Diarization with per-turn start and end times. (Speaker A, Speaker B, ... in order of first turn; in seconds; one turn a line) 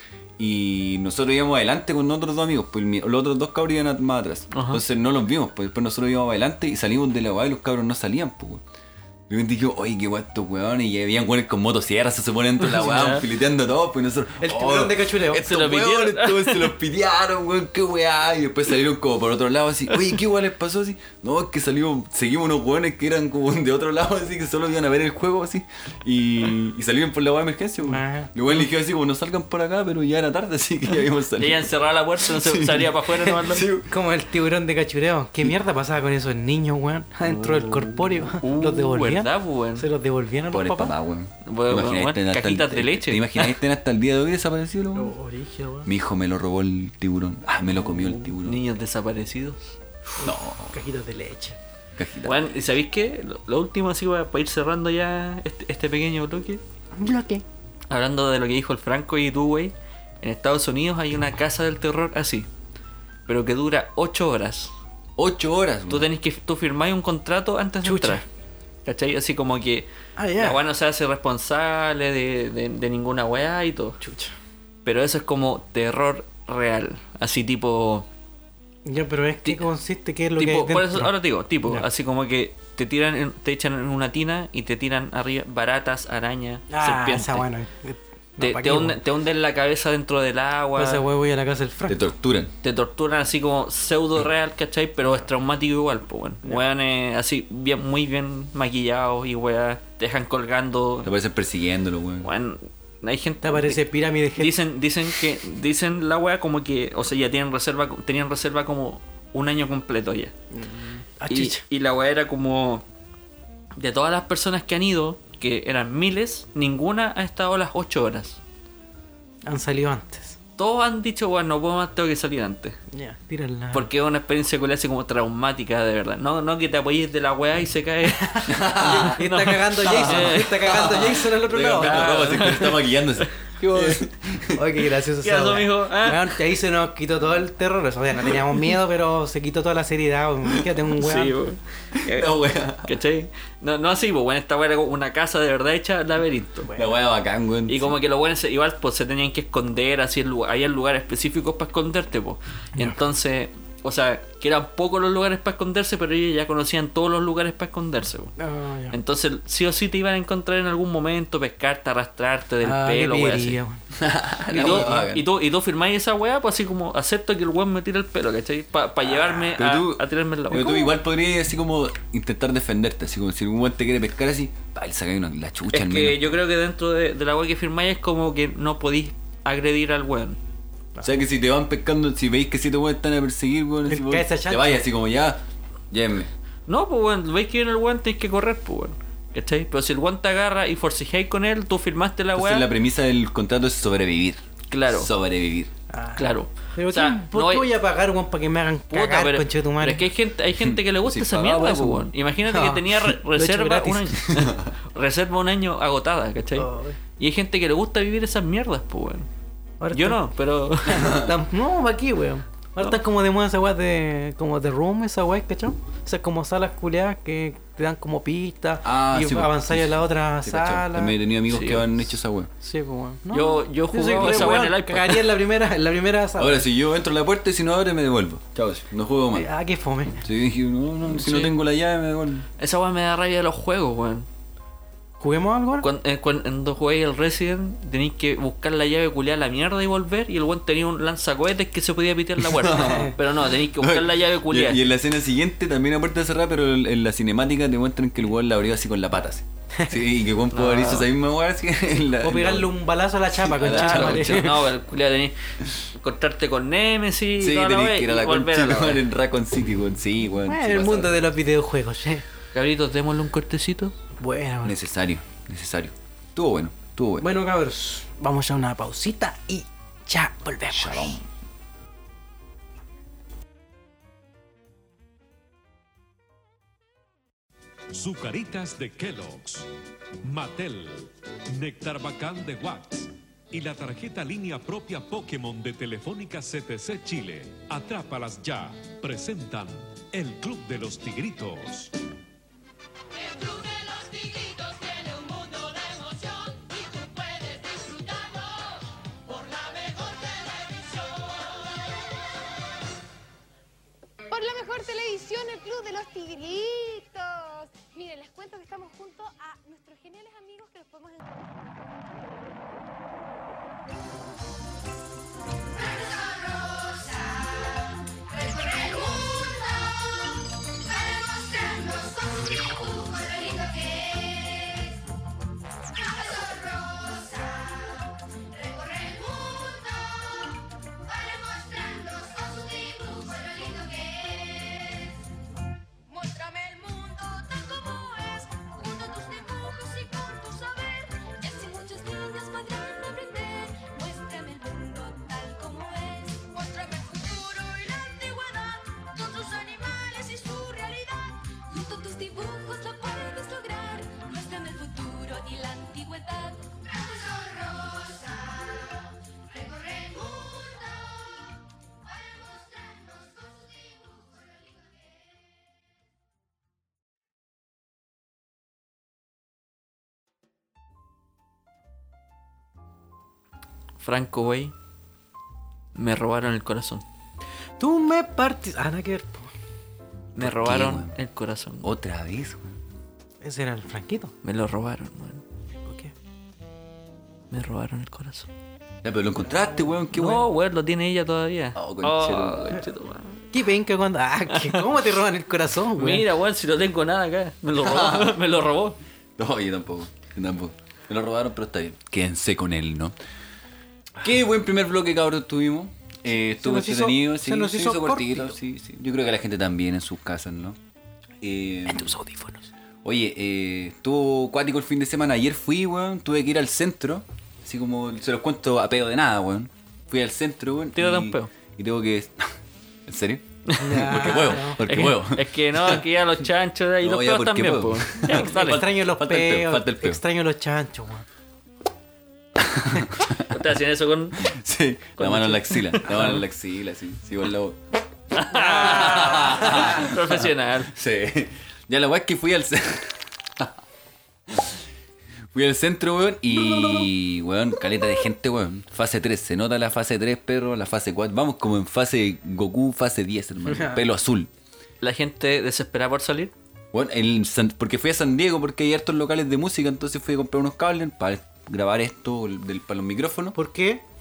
Speaker A: 0.4-8.6
Speaker B: 4.5-4.8
Speaker A: 9.3-33.9
Speaker B: 12.7-13.2
Speaker C: 14.4-15.5
Speaker B: 15.3-16.7
Speaker C: 27.8-28.6
Speaker B: 31.4-33.6
Speaker C: 33.8-40.9
Speaker A: 37.5-38.2
Speaker B: 38.4-39.9
Speaker A: 40.5-45.1
Speaker B: 41.5-43.5
Speaker C: 44.9-45.9
Speaker A: 45.9-48.6
Speaker B: 47.8-49.7
Speaker C: 50.2-51.6
Speaker A: 50.2-50.8
Speaker A: 52.0-52.6
Speaker B: 52.2-56.6
Speaker C: 57.0-57.4
Speaker B: 57.9-62.5
Speaker B: 63.3-64.7
Speaker A: 65.2-66.1
Speaker B: 65.9-68.2
Speaker C: 67.8-68.2
Speaker B: 68.8-74.0
Speaker C: 70.2-70.6
Speaker C: 74.0-74.3
Speaker B: 74.8-78.1
Speaker C: 78.8-81.1
Speaker B: 80.4-87.5
Speaker C: 86.7-89.0
Speaker B: 88.4-91.1
Speaker C: 90.8-92.0
Speaker A: 91.9-92.5
Speaker B: 92.6-101.1
Speaker A: 101.0-102.3
Speaker B: 102.2-103.8
Speaker C: 103.4-104.6
Speaker B: 104.3-110.3
Speaker C: 110.5-111.6
Speaker B: 111.3-112.8
Speaker B: 113.8-118.4
Speaker C: 119.4-120.4
Speaker B: 120.6-122.8
Speaker C: 122.9-123.9
Speaker B: 123.7-130.8
Speaker C: 128.4-132.5
Speaker A: 128.5-129.2
Speaker A: 129.8-134.7
Speaker B: 131.8-134.0
Speaker C: 134.5-141.4
Speaker B: 135.2-136.4
Speaker B: 141.0-142.3
Speaker A: 141.9-143.0
Speaker B: 142.8-146.7
Speaker A: 146.7-147.9
Speaker B: 147.7-158.3
Speaker C: 158.4-159.0
Speaker B: 158.9-163.6
Speaker C: 162.6-163.8
Speaker A: 163.9-165.2
Speaker C: 164.5-165.1
Speaker B: 164.5-170.9
Speaker C: 169.1-169.5
Speaker A: 169.5-176.3
Speaker B: 175.7-180.4
Speaker A: 181.0-186.3
Speaker C: 183.9-184.8
Speaker B: 186.7-192.7
Speaker A: 192.3-195.7
Speaker B: 194.7-195.1
Speaker C: 195.9-200.1
Speaker B: 196.2-197.7
Speaker B: 198.9-209.3
Speaker A: 200.6-202.1
Speaker C: 202.5-204.2
Speaker A: 204.3-204.7
Speaker C: 206.6-207.0
Speaker C: 209.8-210.2
Speaker B: 209.9-211.2
Speaker C: 210.8-221.2
Speaker A: 211.0-211.2
Speaker A: 218.8-222.5
Speaker B: 221.5-221.9
Speaker C: 222.6-226.6
Speaker B: 223.3-225.4
Speaker A: 224.2-224.6
Speaker A: 226.4-229.5
Speaker C: 229.3-230.2
Speaker A: 230.2-232.5
Speaker B: 231.1-231.6
Speaker B: 232.6-234.3
Speaker C: 235.2-235.8
Speaker B: 235.8-244.8
Speaker A: 242.4-252.8
Speaker C: 242.8-243.1
Speaker B: 250.5-251.1
Speaker C: 252.2-254.6
Speaker A: 253.3-254.5
Speaker B: 253.7-255.4
Speaker B: 255.9-259.0
Speaker A: 257.4-261.3
Speaker C: 260.4-262.2
Speaker B: 262.5-263.9
Speaker C: 264.2-264.8
Speaker A: 264.6-267.3
Speaker C: 267.2-271.2
Speaker A: 270.7-271.2
Speaker D: 277.9-279.7
Speaker D: 280.2-291.9
Speaker E: 293.2-298.8
Speaker E: 299.3-301.7
Speaker E: 304.3-311.8
Speaker E: 315.9-317.7
Speaker E: 318.3-319.9
Speaker E: 320.9-324.9
Speaker E: 326.1-335.2
Speaker E: 336.1-358.9
Speaker E: 359.5-361.4
Speaker E: 362.1-364.9
Speaker B: 374.0-374.7
Speaker B: 375.9-377.0
Speaker C: 377.8-379.5
Speaker B: 380.3-381.9
Speaker A: 380.4-381.1
Speaker A: 381.8-382.8
Speaker C: 383.4-384.3
Speaker B: 384.4-385.4
Speaker C: 385.8-386.1
Speaker B: 387.5-388.5
Speaker A: 389.0-390.4
Speaker B: 390.1-393.4
Speaker A: 391.7-392.8
Speaker C: 393.5-396.2
Speaker B: 394.5-394.8
Speaker B: 396.0-399.0
Speaker A: 397.8-398.4
Speaker A: 399.4-403.1
Speaker A: 404.2-410.8
Speaker C: 406.6-408.6
Speaker A: 411.4-412.2
Speaker C: 411.9-412.7
Speaker A: 413.0-422.5
Speaker B: 420.9-421.5
Speaker A: 423.1-426.0
Speaker B: 423.7-428.9
Speaker C: 423.8-424.8
Speaker A: 427.0-430.2
Speaker C: 428.2-431.2
Speaker A: 432.6-433.5
Speaker B: 433.4-434.5
Speaker A: 434.4-437.8
Speaker B: 435.2-436.4
Speaker B: 438.3-440.9
Speaker C: 438.5-439.7
Speaker A: 438.6-443.7
Speaker A: 444.5-444.8
Speaker A: 445.5-454.5
Speaker C: 446.5-447.1
Speaker C: 453.6-454.0
Speaker B: 455.0-456.5
Speaker A: 456.9-463.6
Speaker C: 463.5-464.0